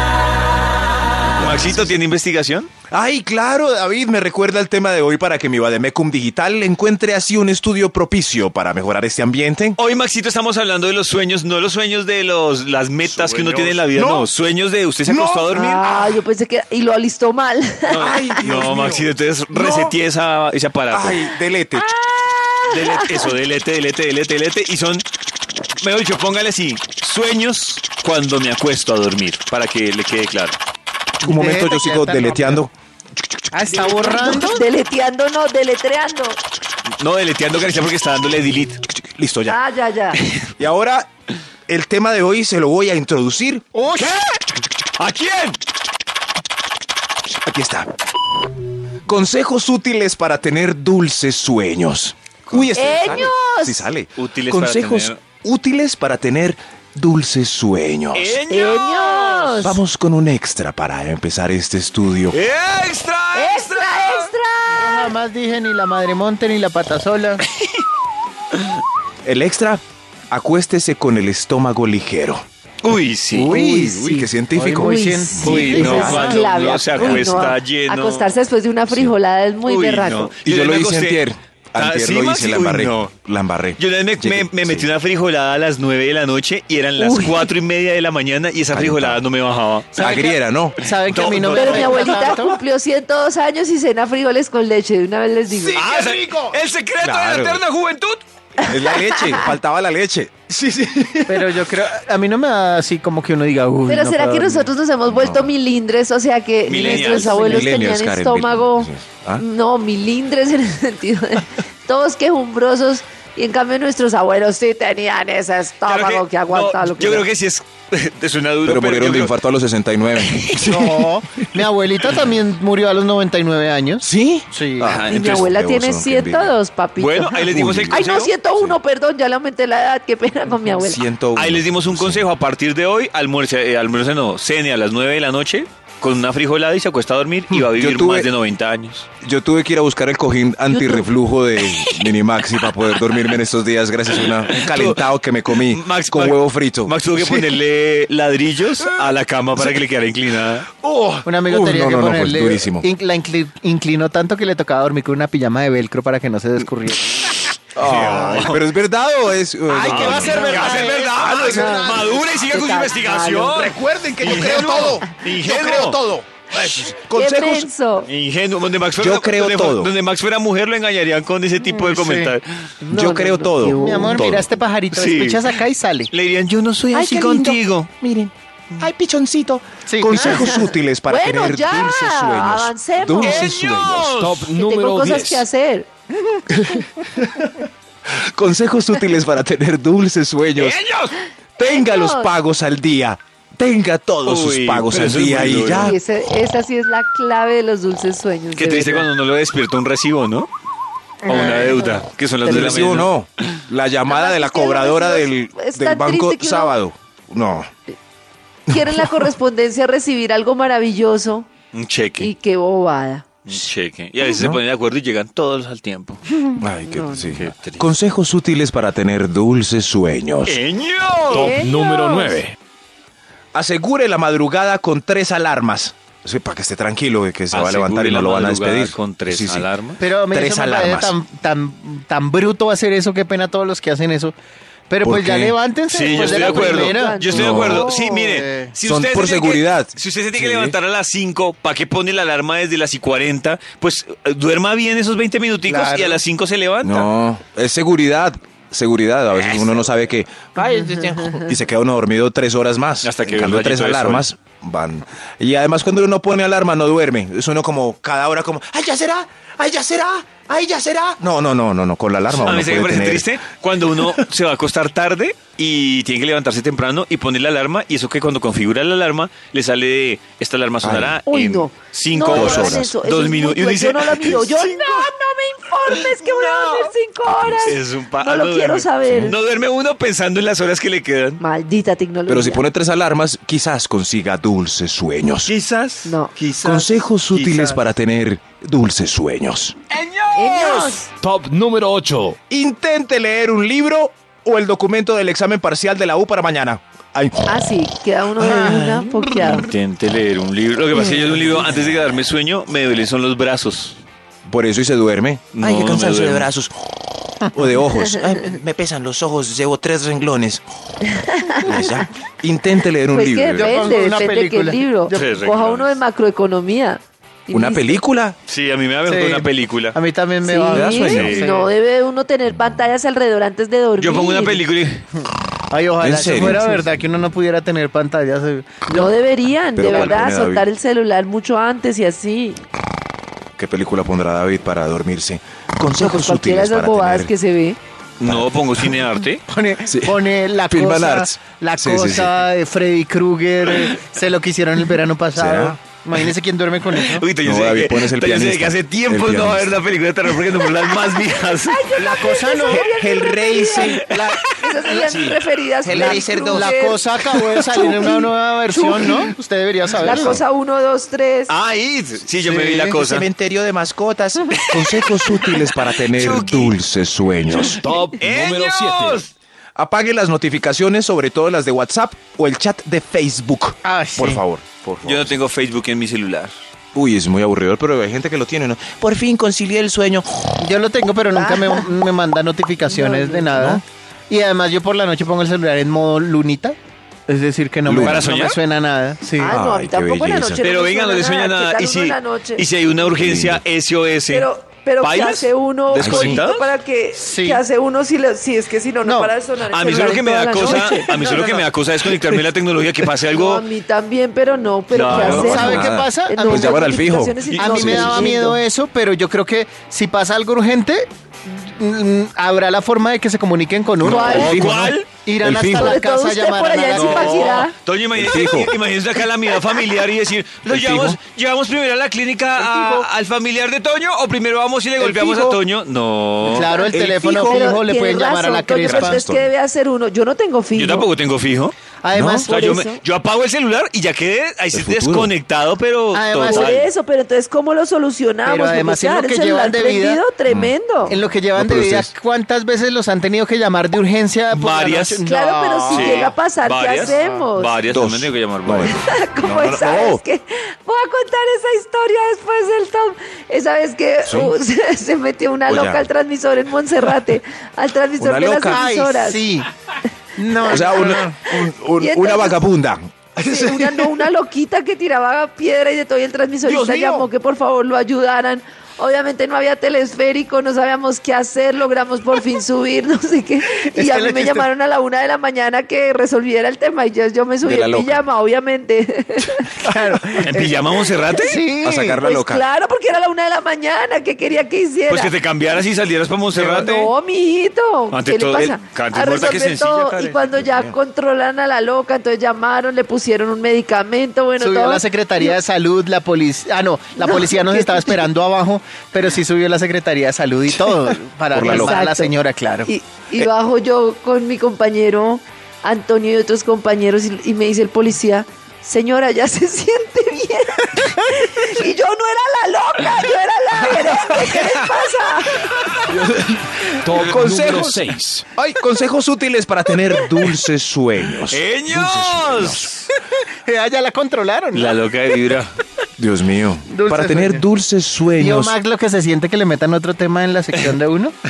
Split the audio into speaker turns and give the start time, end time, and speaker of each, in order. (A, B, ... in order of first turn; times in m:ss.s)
0:01.4-0:02.0 A
0:01.4-0:02.7 B
0:02.9-0:09.8 A
0:09.8-0:16.2 B
0:13.0-0:14.3 A
0:15.0-0:15.6 A
0:15.5-0:18.2 C
0:17.9-0:21.3 B
0:17.9-0:20.0 A
0:20.9-0:22.0 A
0:21.8-0:23.3 C
0:22.6-0:25.0 B
0:25.8-0:30.6 B
0:31.2-0:32.7 D
0:31.2-0:32.7 A
0:33.5-0:34.6 D
0:34.0-0:36.4 C
0:37.0-0:38.8 B
0:38.9-0:39.6 A
0:39.5-0:40.2 C
0:40.1-0:40.5 B
0:40.6-0:41.1 A
0:41.7-0:43.7 A
0:43.7-0:44.2 D
0:45.0-0:45.6 B
0:47.3-0:47.9 A
0:49.1-0:58.4 A
0:52.5-0:53.3 B
0:52.8-0:53.9 C
0:54.2-0:55.2 B
0:58.1-0:59.6 B
0:58.5-0:59.8 C
0:59.6-1:02.4 A
1:02.3-1:04.3 B
1:03.3-1:05.1 C
1:04.7-1:07.4 D
1:07.6-1:07.8 B
1:09.2-1:12.4 A
1:12.8-1:13.5 B
1:13.3-1:16.5 D
1:13.4-1:16.1 A
1:14.8-1:20.3 C
1:15.4-1:18.3 B
1:19.6-1:23.1 B
1:20.4-1:24.9 A
1:23.8-1:30.1 B
1:27.0-1:27.5 C
1:28.7-1:29.2 A
1:29.9-1:32.6 D
1:30.0-1:30.8 A
1:30.9-1:32.4 B
1:31.5-1:35.8 C
1:35.5-1:37.6 A
1:35.8-1:38.2 B
1:38.6-1:41.5 A
1:38.6-1:39.5 C
1:41.3-1:44.7 D
1:43.9-1:57.3 C
1:45.1-1:45.5 A
1:46.7-1:47.7 B
1:46.8-1:47.2 D
1:47.2-1:49.4 A
1:55.8-1:59.4 B
1:58.6-2:00.6 A
2:00.2-2:01.1 B
2:00.6-2:05.0 D
2:04.0-2:06.6 A
2:04.8-2:05.5 B
2:05.1-2:11.0 C
2:07.0-2:08.3 B
2:07.5-2:08.8 A
2:10.7-2:12.3 A
2:11.4-2:19.1 B
2:17.5-2:18.3 A
2:19.2-2:27.6 A
2:21.6-2:22.1 B
2:22.9-2:23.4 B
2:24.1-2:30.7 B
2:28.8-2:29.1 A
2:30.8-2:32.8 A
2:31.2-2:37.2 D
2:37.8-2:38.6 B
2:37.8-2:42.4 A
2:38.1-2:38.4 D
2:39.7-2:42.0 D
2:39.8-2:46.0 B
2:41.6-2:43.7 C
2:43.5-2:47.7 A
2:44.4-2:44.9 D
2:47.0-2:48.1 C
2:48.0-2:52.6 B
2:49.0-2:49.9 A
2:51.7-2:52.3 D
2:52.8-2:54.3 C
2:52.9-2:53.9 A
2:53.7-2:56.1 D
2:54.0-2:55.6 B
2:56.1-2:57.9 B
2:57.0-2:57.4 A
2:58.0-3:04.3 A
2:59.9-3:00.3 D
3:00.2-3:03.5 C
3:03.2-3:04.5 B
3:04.1-3:05.5 E
3:04.5-3:05.9 C
3:06.5-3:10.8 A
3:10.6-3:11.2 B
3:11.6-3:12.4 C
3:11.6-3:16.0 A
3:14.2-3:16.0 B
3:15.8-3:19.1 C
3:18.6-3:20.5 B
3:21.2-3:21.8 D
3:21.3-3:23.1 B
3:22.4-3:27.7 A
3:24.1-3:26.8 C
3:28.7-3:31.5 C
3:28.7-3:29.2 A
3:31.7-3:32.3 B
3:32.2-3:33.3 C
3:33.5-3:36.2 B
3:34.3-3:34.6 A
3:36.6-3:40.6 A
3:36.9-3:37.4 C
3:37.2-3:37.9 B
3:40.5-3:41.6 B
3:41.3-3:42.4 C
3:41.3-3:42.6 E
3:43.5-3:49.7 A
3:47.5-3:50.0 B
3:50.0-3:54.3 D
3:50.3-3:51.2 A
3:54.9-3:58.7 D
3:55.0-3:55.6 A
3:55.9-4:07.0 B
3:56.2-3:57.9 C
3:57.3-3:57.9 A
3:58.8-4:00.8 A
4:05.7-4:06.2 D
4:06.8-4:23.4 A
4:09.3-4:09.9 B
4:13.0-4:14.3 B
4:22.3-4:35.1 B
4:30.8-4:31.2 A
4:31.3-4:39.4 C
4:32.3-4:32.9 A
4:35.9-4:36.9 B
4:37.3-4:37.7 A
4:37.5-4:41.4 B
4:41.4-4:42.6 C
4:42.3-4:45.5 A
4:45.5-4:47.8 B
4:46.0-4:46.3 C
4:46.6-4:49.8 A
4:49.9-4:51.0 B
4:50.4-4:51.1 C
4:51.2-4:52.4 E
4:52.5-4:57.7 A
4:57.5-4:59.7 C
4:58.4-4:59.5 A
4:59.4-5:04.0 B
5:04.4-5:06.7 A
5:05.5-5:06.5 B
5:07.4-5:10.6 A
5:11.0-5:12.0 C
5:11.6-5:13.8 A
5:13.1-5:18.0 C
5:13.5-5:15.3 D
5:15.1-5:16.0 B
5:17.5-5:18.4 A
5:18.5-5:20.0 B
5:19.0-5:21.7 D
5:20.4-5:24.6 C
5:20.7-5:21.3 A
5:20.8-5:21.6 B
5:24.0-5:25.0 B
5:25.2-5:28.9 D
5:26.0-5:26.7 A
5:28.9-5:32.6 C
5:29.8-5:30.7 A
5:33.6-5:37.3 A
5:36.0-5:37.8 C
5:38.2-5:39.4 B
5:38.2-5:38.9 A
5:39.5-5:47.2 D
5:39.9-5:42.3 A
5:45.3-5:45.8 A
5:46.9-5:51.9 B
5:47.4-5:49.8 A
5:51.1-5:57.0 C
5:52.0-5:52.8 D
5:52.7-5:54.4 A
5:53.8-5:55.3 B
5:54.8-5:55.2 D
5:55.2-5:56.8 A
5:55.9-6:00.4 D
5:57.4-5:57.8 B
5:57.7-5:59.3 C
6:00.0-6:01.5 C
6:01.5-6:03.3 B
6:02.4-6:03.0 D
6:02.9-6:07.8 A
6:04.6-6:06.8 B
6:07.5-6:09.3 B
6:07.6-6:09.2 E
6:09.8-6:15.4 A
6:13.8-6:14.4 D
6:15.0-6:16.6 B
6:16.9-6:20.5 A
6:20.6-6:26.8 D
6:21.3-6:21.9 C
6:22.9-6:23.8 C
6:27.3-6:29.6 D
6:27.8-6:28.3 A
6:28.0-6:28.6 B
6:29.4-6:32.6 C
6:29.4-6:30.6 A
6:30.6-6:34.5 B
6:33.1-6:33.6 A
6:34.3-6:41.6 C
6:35.0-6:36.7 B
6:36.0-6:36.4 A
6:37.2-6:37.6 D
6:39.0-6:39.4 D
6:39.6-6:43.6 B
6:40.7-6:41.1 D
6:42.1-6:42.4 A
6:43.3-6:48.6 C
6:44.9-6:45.6 B
6:45.1-6:48.1 A
6:45.3-6:46.8 D
6:47.5-6:48.3 B
6:47.6-6:54.6 D
6:54.0-6:56.0 A
6:54.0-6:54.7 C
6:54.1-6:55.1 B
6:55.2-6:57.7 D
6:55.7-6:57.7 C
6:56.9-6:57.3 A
6:57.0-7:07.7 B
6:58.2-6:58.7 A
7:00.7-7:01.2 A
7:02.6-7:03.1 D
7:05.0-7:05.5 D
7:06.4-7:09.2 D
7:06.7-7:11.1 C
7:08.9-7:09.5 A
7:10.7-7:11.8 B
7:12.0-7:12.7 D
7:12.1-7:12.5 A
7:12.4-7:16.9 B
7:12.5-7:13.0 C
7:14.7-7:15.3 A
7:16.1-7:16.8 D
7:16.4-7:21.2 C
7:18.4-7:20.2 D
7:20.4-7:22.1 A
7:21.1-7:26.1 D
7:24.5-7:25.2 B
7:25.3-7:27.8 C
7:25.9-7:29.0 B
7:27.0-7:27.5 D
7:27.9-7:30.2 A
7:28.8-7:39.4 C
7:34.2-7:34.6 A
7:35.7-7:36.0 A
7:38.2-7:38.8 A
7:38.7-7:39.7 D
7:40.4-7:41.4 D
7:40.6-7:44.1 A
7:41.6-7:42.6 C
7:43.4-7:59.8 C
7:46.6-7:47.3 A
7:53.6-7:54.7 D
7:57.6-7:58.2 A
7:59.8-8:02.2 D
8:00.4-8:01.6 B
8:01.8-8:02.6 A
8:02.2-8:05.3 C
8:05.1-8:07.1 B
8:06.8-8:15.5 C
8:08.1-8:10.4 B
8:10.4-8:11.0 A
8:14.6-8:22.9 D
8:17.2-8:18.3 C
8:21.5-8:22.0 A
8:21.6-8:22.3 C
8:22.9-8:35.9 C
8:33.7-8:34.6 A
8:35.6-8:36.0 B
8:36.0-8:38.4 E
8:36.2-8:36.5 A
8:37.0-8:37.4 B
8:37.2-8:42.9 A
8:41.5-8:43.1 B
8:43.5-8:45.0 D
8:44.7-8:45.7 B
8:46.2-8:48.8 A
8:46.9-8:47.6 D
8:48.4-8:51.4 D